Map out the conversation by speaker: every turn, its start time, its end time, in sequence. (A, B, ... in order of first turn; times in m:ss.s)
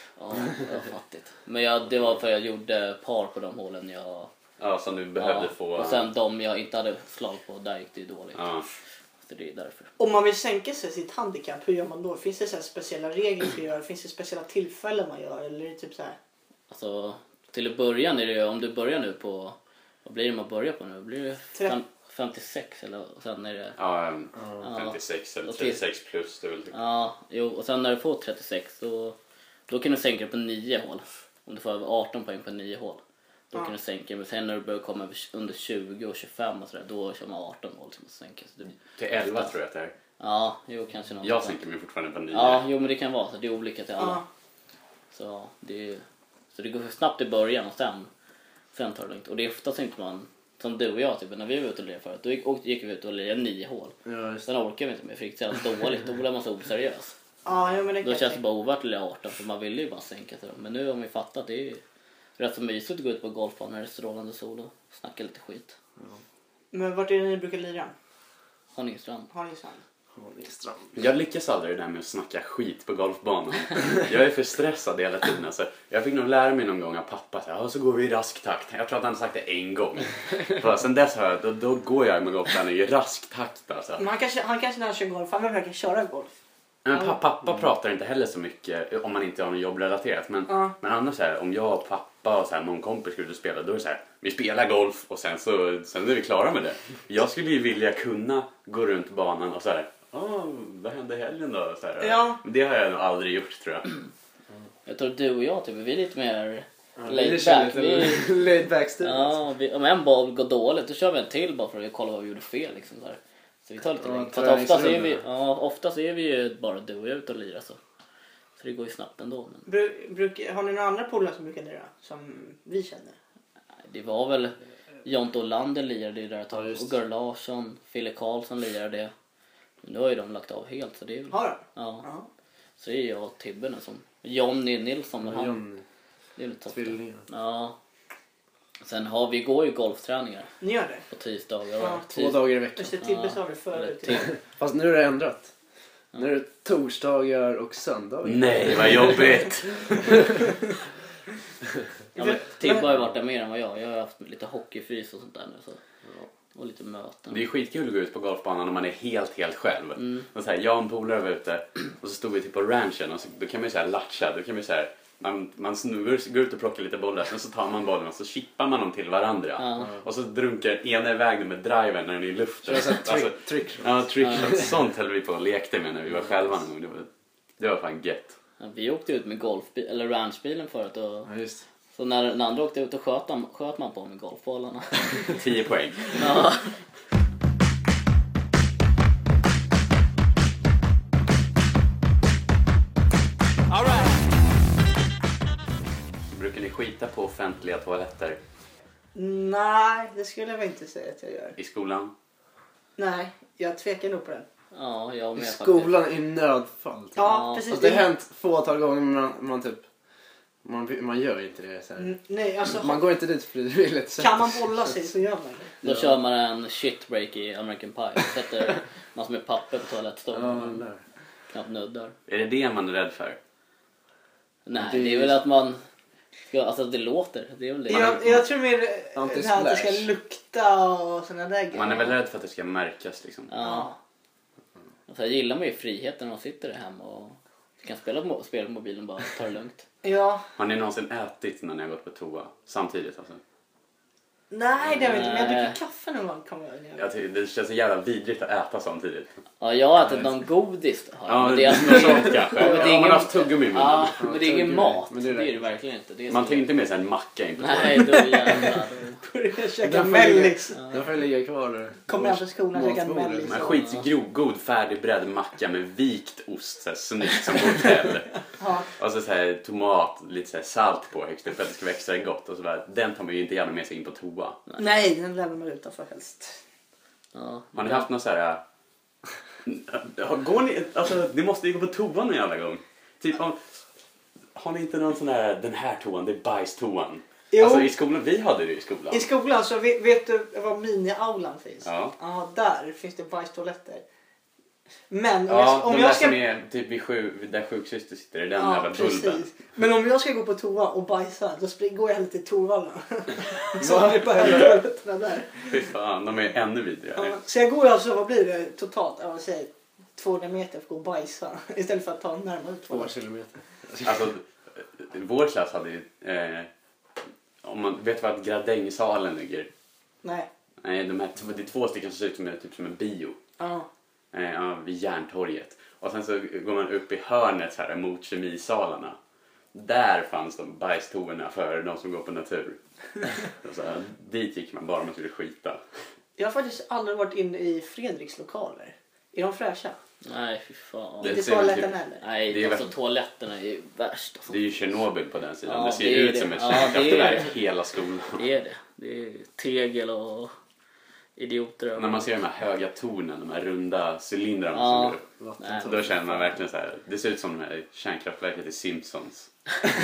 0:00.2-0:04.3 A
0:04.6-0:06.1 B
0:05.2-0:08.5 A
0:08.4-0:08.7 B
0:09.2-0:09.9 A
0:10.0-0:16.2 C
0:16.7-0:23.8 A
0:23.8-0:26.7 B
0:24.6-0:25.8 A
0:26.7-0:29.2 A
0:29.7-0:33.0 A
0:33.5-0:39.5 A
0:39.0-0:39.9 B
0:40.2-0:41.6 A
0:41.2-0:42.6 B
0:42.3-0:44.2 A
0:44.0-0:44.2 C
0:45.1-0:46.0 A
0:46.5-0:48.1 A
0:48.7-0:57.2 A
0:54.1-0:54.4 D
0:57.4-0:58.4 C
0:58.0-1:01.8 A
1:02.4-1:05.8 A
1:06.7-1:07.9 C
1:08.7-1:09.3 A
1:09.3-1:09.8 C
1:10.1-1:10.9 D
1:11.0-1:24.0 B
1:24.0-1:26.3 C
1:26.8-1:43.9 B
1:30.5-1:30.7 C
1:42.0-1:42.4 C
1:44.9-1:57.8 A
1:47.0-1:49.4 D
1:54.0-1:55.2 D
1:58.6-1:59.7 A
1:59.7-2:03.2 C
2:03.8-2:09.1 A
2:06.5-2:06.9 D
2:09.8-2:12.1 A
2:11.3-2:12.3 C
2:12.8-2:15.6 A
2:15.2-2:15.8 D
2:16.4-2:17.8 A
2:16.7-2:17.2 D
2:18.8-2:20.5 A
2:20.6-2:21.0 C
2:21.1-2:22.4 A
2:21.8-2:22.1 C
2:22.1-2:22.9 D
2:22.8-2:24.3 C
2:23.0-2:24.3 A
2:24.4-2:25.5 D
2:26.2-2:29.2 D
2:28.2-2:30.4 B
2:32.2-2:32.8 C
2:32.2-2:35.8 A
2:36.5-2:37.4 A
2:37.3-2:57.1 B
2:40.0-2:40.2 A
2:49.6-2:49.9 A
2:52.6-2:54.7 D
2:54.2-2:54.5 A
2:57.6-2:58.4 B
2:58.6-3:01.3 A
3:01.3-3:01.6 D
3:02.0-3:05.4 A
3:05.3-3:06.4 B
3:06.1-3:06.7 A
3:16.3-3:18.4 B
3:19.2-3:21.6 C
3:21.6-3:22.1 B
3:23.0-3:24.5 C
3:24.7-3:26.0 A
3:25.4-3:29.8 D
3:27.2-3:28.1 C
3:27.2-3:27.7 A
3:30.6-3:32.2 D
3:32.0-3:33.0 C
3:32.7-3:34.9 D
3:34.2-3:35.7 C
3:35.8-3:40.8 A
3:35.8-3:36.2 D
3:40.3-3:41.0 D
3:41.5-3:42.2 A
3:42.3-3:43.4 B
3:44.7-3:45.8 A
3:44.8-3:45.4 D
3:46.5-3:48.2 A
3:47.9-3:52.1 C
3:47.9-3:48.2 B
3:49.2-3:50.1 D
3:51.7-3:53.5 B
3:53.5-3:53.9 A
3:53.6-3:54.0 C
3:55.1-3:59.8 A
4:00.0-4:00.4 C
4:00.6-4:03.4 B
4:04.5-4:07.0 C
4:04.9-4:05.2 B
4:05.0-4:05.8 A
4:07.0-4:09.3 B
4:09.6-4:16.7 A
4:11.3-4:14.2 B
4:14.2-4:15.6 D
4:16.3-4:18.2 B
4:17.6-4:19.2 A
4:18.0-4:20.8 C
4:19.8-4:23.7 D
4:20.8-4:21.0 A
4:22.1-4:23.8 C
4:23.4-4:34.6 B
4:23.7-4:24.0 A
4:28.6-4:28.9 C
4:34.8-4:36.6 C
4:37.3-4:38.1 A
4:37.7-4:38.6 B
4:39.6-4:43.6 B
4:44.5-4:49.3 B
4:47.5-4:47.9 C
4:49.1-4:54.0 C
4:51.8-4:52.2 B
4:55.1-4:56.4 C
4:55.5-4:59.5 B
4:58.6-5:05.7 C
5:03.8-5:04.8 D
5:05.7-5:07.4 B
5:07.2-5:13.1 C
5:12.9-5:14.2 D
5:14.0-5:14.5 B
5:15.0-5:16.7 B
5:17.6-5:19.7 B
5:20.2-5:20.5 C
5:20.8-5:23.4 B
5:23.6-5:23.9 C
5:24.3-5:29.2 B
5:29.7-5:35.8 B
5:36.4-5:40.0 C
5:40.2-5:41.5 A
5:41.2-5:42.9 B
5:41.2-5:42.2 C
5:42.2-5:44.6 A
5:44.5-5:48.4 B
5:45.6-5:47.6 A
5:48.4-5:50.5 A
5:51.4-5:52.3 A
5:52.0-5:55.2 B
5:54.7-5:56.1 A
5:55.4-5:56.3 D
5:55.8-5:59.5 B